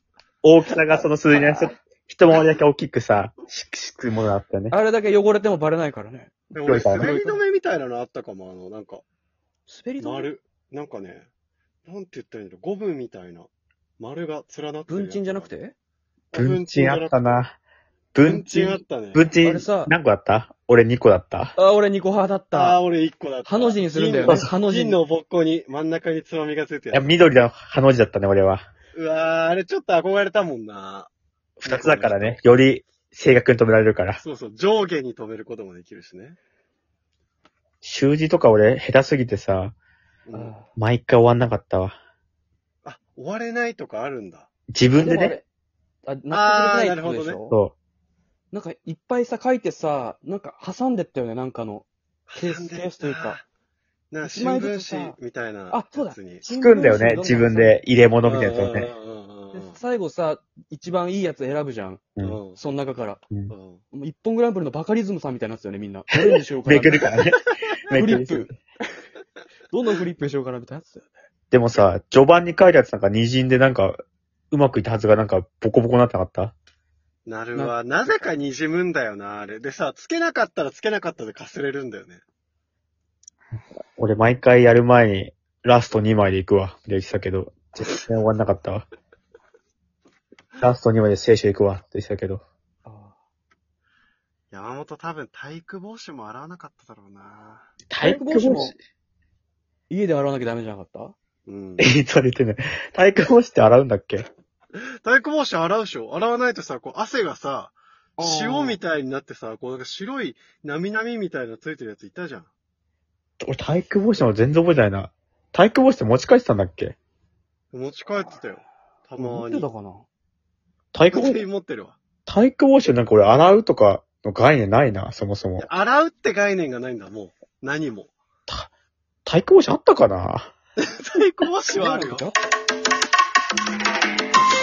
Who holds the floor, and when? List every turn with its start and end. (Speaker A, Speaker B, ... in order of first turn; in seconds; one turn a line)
Speaker A: 0.4-4.8
Speaker B: 1.3-1.7
Speaker B: 4.7-6.4
Speaker C: 6.5-9.0
Speaker A: 6.7-7.1
Speaker B: 7.0-7.4
Speaker B: 9.7-10.3
Speaker C: 10.0-11.3
Speaker C: 11.9-15.5
Speaker B: 14.9-15.8
Speaker C: 16.3-17.4
Speaker A: 16.3-17.6
Speaker A: 18.1-21.6
Speaker C: 18.3-19.3
Speaker B: 19.4-19.9
Speaker B: 21.6-22.8
Speaker C: 22.5-27.2
Speaker B: 23.5-25.0
Speaker A: 24.3-24.5
Speaker A: 26.9-28.7
Speaker C: 28.9-31.1
Speaker A: 31.6-34.2
Speaker C: 31.6-32.4
Speaker C: 34.2-36.4
Speaker A: 37.8-39.8
Speaker C: 40.3-40.5
Speaker B: 40.3-40.7
Speaker A: 40.8-42.0
Speaker C: 42.8-44.5
Speaker A: 44.7-45.4
Speaker B: 45.0-45.5
Speaker B: 46.1-47.6
Speaker C: 46.3-47.4
Speaker A: 47.5-47.8
Speaker B: 48.5-53.4
Speaker C: 52.3-53.5
Speaker C: 54.1-57.3
Speaker B: 54.2-55.2
Speaker B: 55.7-57.8
Speaker A: 56.5-58.9
Speaker C: 58.2-59.8
Speaker B: 59.5-62.0
Speaker C: 62.2-62.6
Speaker B: 62.6-63.2
Speaker C: 63.5-63.8
Speaker B: 63.9-67.1
Speaker A: 66.1-68.5
Speaker B: 67.9-68.6
Speaker B: 69.7-71.1
Speaker A: 71.5-74.0
Speaker A: 74.5-76.5
Speaker C: 77.3-82.2
Speaker A: 84.0-88.9
Speaker A: 90.6-92.4
Speaker B: 92.8-93.2
Speaker C: 94.5-97.7
Speaker A: 97.9-98.8
Speaker B: 98.0-98.7
Speaker B: 99.9-101.2
Speaker C: 101.5-101.9
Speaker A: 101.8-104.3
Speaker C: 104.8-112.5
Speaker B: 108.2-108.8
Speaker A: 113.4-117.0
Speaker C: 117.7-119.7
Speaker B: 119.2-120.1
Speaker A: 120.9-121.4
Speaker C: 121.1-122.0
Speaker A: 122.3-125.7
Speaker C: 125.6-128.1
Speaker A: 129.2-130.5
Speaker C: 130.8-132.3
Speaker B: 131.7-132.4